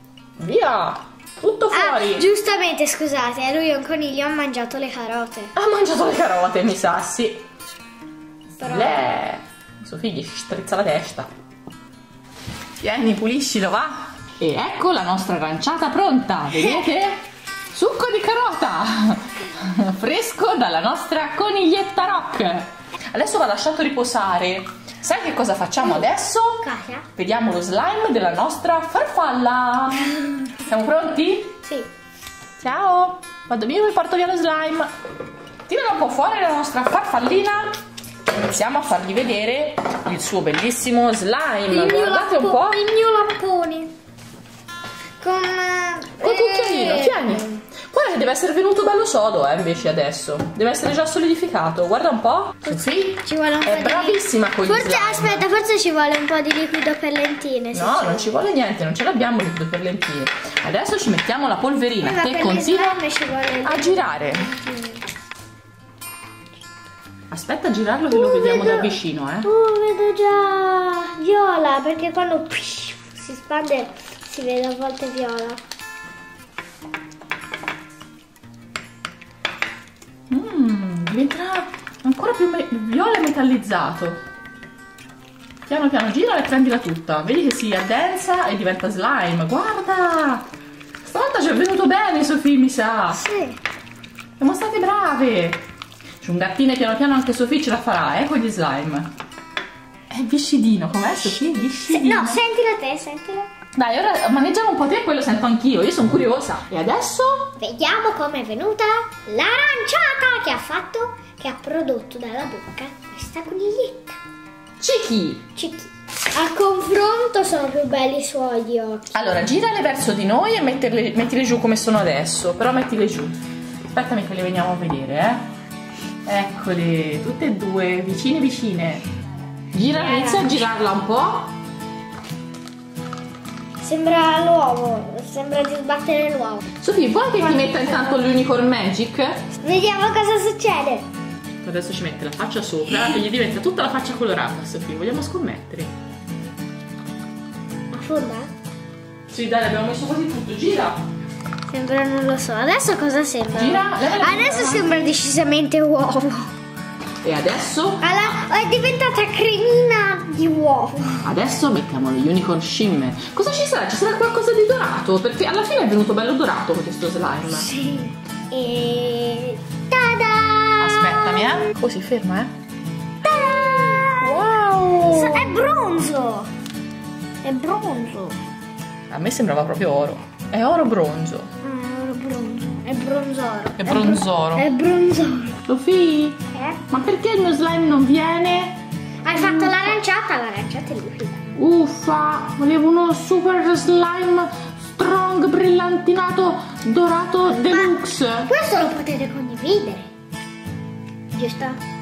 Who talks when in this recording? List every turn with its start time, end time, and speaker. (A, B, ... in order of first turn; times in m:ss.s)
0:00.4-0:02.3 A
0:01.7-0:05.5 B
0:05.6-0:07.4 A
0:08.6-0:09.1 B
0:08.6-0:11.3 A
0:12.8-0:17.2 A
0:17.7-0:26.6 A
0:26.6-0:27.1 B
0:27.2-0:31.5 A
0:31.6-0:31.9 B
0:32.6-0:34.9 A
0:35.7-0:37.8 A
0:38.4-0:42.8 A
0:41.7-0:43.9 B
0:45.2-0:47.6 B
0:46.2-0:55.4 A
0:52.6-0:58.3 B
0:57.7-1:03.0 A
1:02.0-1:05.0 B
1:03.6-1:04.5 A
1:07.3-1:09.5 A
1:08.1-1:15.6 B
1:20.3-1:24.2 A
1:25.7-1:30.5 A
1:31.0-1:33.2 A
1:33.1-1:33.6 B
1:34.4-1:35.6 A
1:36.2-1:39.1 A
1:40.1-1:42.4 A
1:41.8-1:43.5 B
1:43.8-1:47.5 A
1:47.6-1:54.2 B
1:54.8-1:55.4 A
1:55.6-1:59.4 B
1:59.1-2:05.5 A
2:06.2-2:09.1 A
2:09.7-2:11.5 A
2:09.9-2:10.7 B
2:13.8-2:16.6 B
2:16.8-2:19.4 A
2:19.6-2:21.0 B
2:21.6-2:25.9 A
2:27.9-2:28.5 B
2:29.3-2:31.0 A
2:31.7-2:36.5 B
2:33.5-2:35.2 A
2:37.2-2:38.4 A
2:38.0-2:41.3 B
2:41.2-2:47.7 A
2:47.5-2:51.6 B
2:50.8-2:52.5 A
2:53.2-2:54.4 B
2:54.2-2:55.6 A
2:55.0-2:56.5 B
2:57.4-2:58.4 B
2:59.1-3:01.5 A
3:01.6-3:05.6 B
3:03.8-3:04.7 A
3:05.7-3:08.8 A
3:06.5-3:06.8 B
3:09.2-3:11.5 B
3:09.3-3:09.9 A
3:11.6-3:18.5 A
3:17.5-3:20.1 B
3:21.3-3:21.8 B